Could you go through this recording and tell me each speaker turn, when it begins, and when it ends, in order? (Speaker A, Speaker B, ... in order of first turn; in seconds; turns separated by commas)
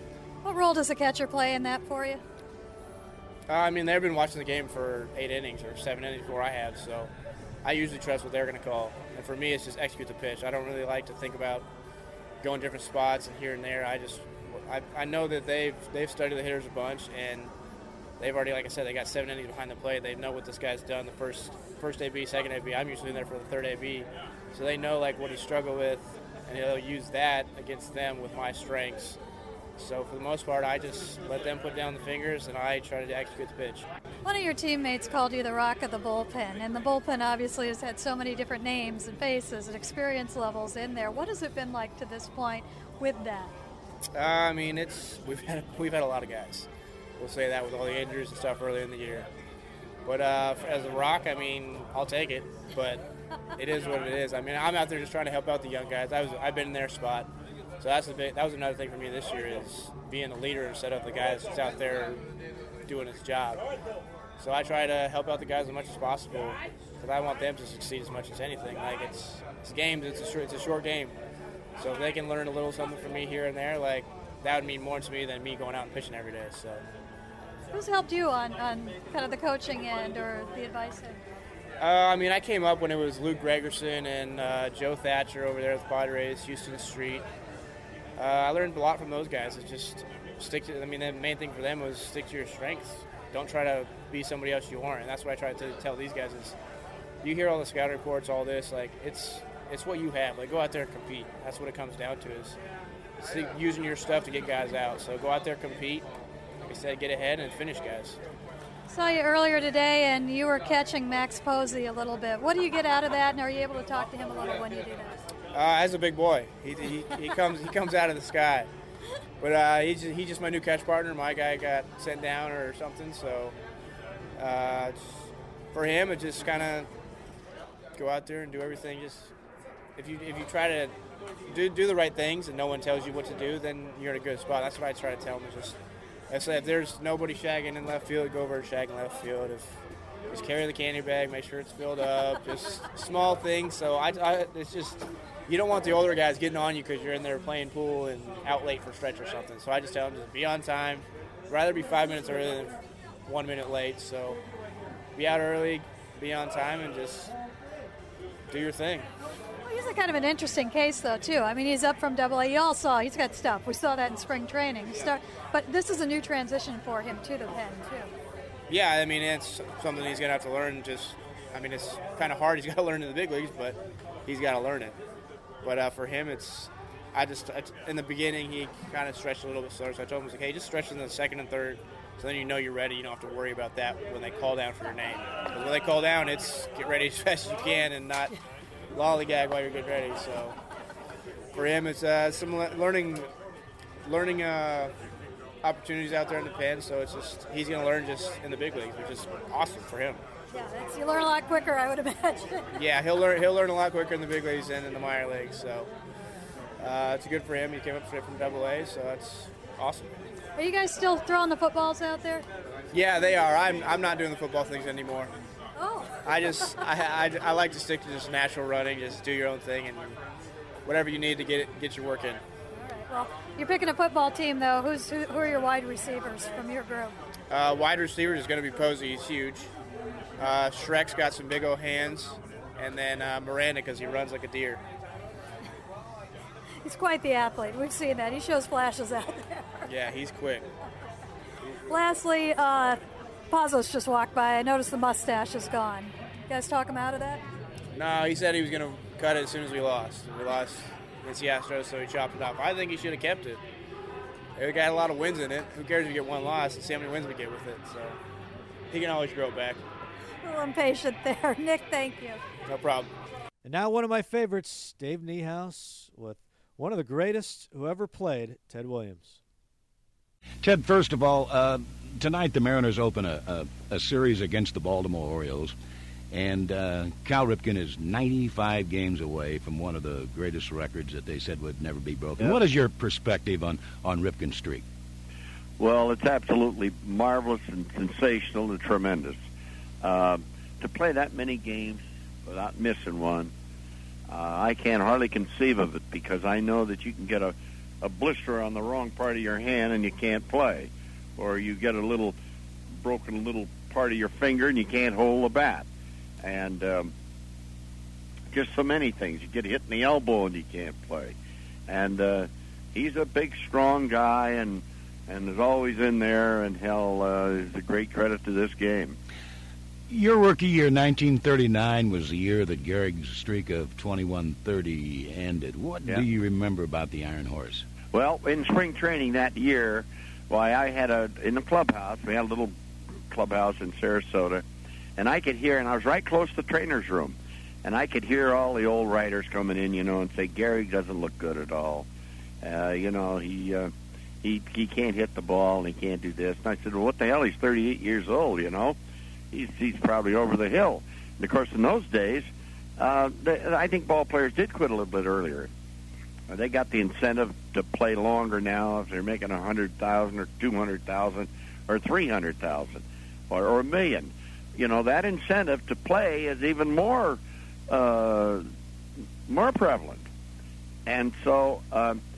Speaker A: 0.4-2.2, Speaker B: 3.5-7.1, Speaker B: 7.6-11.6, Speaker B: 12.4-17.5, Speaker B: 18.2-29.2, Speaker B: 29.8-33.9, Speaker A: 34.2-43.5, Speaker B: 44.1-46.7, Speaker B: 47.2-49.3, Speaker B: 50.0-53.0, Speaker B: 53.6-57.3, Speaker B: 57.8-62.2, Speaker B: 62.9-63.6, Speaker B: 64.4-71.1, Speaker B: 71.8-76.8, Speaker A: 77.7-81.2, Speaker B: 81.8-87.2, Speaker B: 88.2-96.5, Speaker B: 97.2-102.6, Speaker B: 103.2-106.0, Speaker B: 106.7-108.2, Speaker A: 108.9-115.2, Speaker B: 115.5-118.7, Speaker B: 119.4-123.5, Speaker B: 124.4-126.9, Speaker B: 128.0-129.3, Speaker B: 129.9-130.9, Speaker B: 131.5-135.8, Speaker B: 136.3-139.8, Speaker B: 140.3-154.4, Speaker B: 155.2-157.3, Speaker B: 158.5-159.1, Speaker A: 159.6-168.1, Speaker B: 168.7-174.9, Speaker B: 175.6-188.3, Speaker B: 188.9-190.5, Speaker B: 191.5-193.3, Speaker B: 194.0-194.9, Speaker B: 195.6-200.2, Speaker A: 200.5-202.7, Speaker B: 202.7-205.9, Speaker B: 206.8-210.1, Speaker A: 210.6-212.4, Speaker B: 212.9-215.3, Speaker A: 215.8-216.2, Speaker B: 216.2-220.2, Speaker B: 220.8-222.4, Speaker A: 222.8-227.1, Speaker B: 227.5-229.7, Speaker B: 230.4-234.8, Speaker A: 236.8-239.8, Speaker B: 239.9-240.7, Speaker A: 241.9-243.0, Speaker A: 243.5-247.4, Speaker B: 247.9-253.6, Speaker B: 254.6-258.2, Speaker B: 258.9-259.8, Speaker A: 260.4-262.4, Speaker B: 262.7-263.1, Speaker C: 263.6-269.4, Speaker D: 270.6-275.7, Speaker D: 276.3-284.8, Speaker E: 285.8-289.4, Speaker E: 290.0-293.5, Speaker E: 294.3-302.4, Speaker E: 303.0-305.9, Speaker E: 306.4-307.1, Speaker E: 308.5-311.3, Speaker E: 311.9-319.2, Speaker D: 320.1-327.9, Speaker E: 328.1-332.7, Speaker E: 333.3-334.6, Speaker E: 335.2-342.1, Speaker E: 342.6-343.9, Speaker E: 344.4-349.0, Speaker E: 349.5-355.7, Speaker E: 356.5-368.6, Speaker E: 369.5-370.2, Speaker E: 371.1-372.2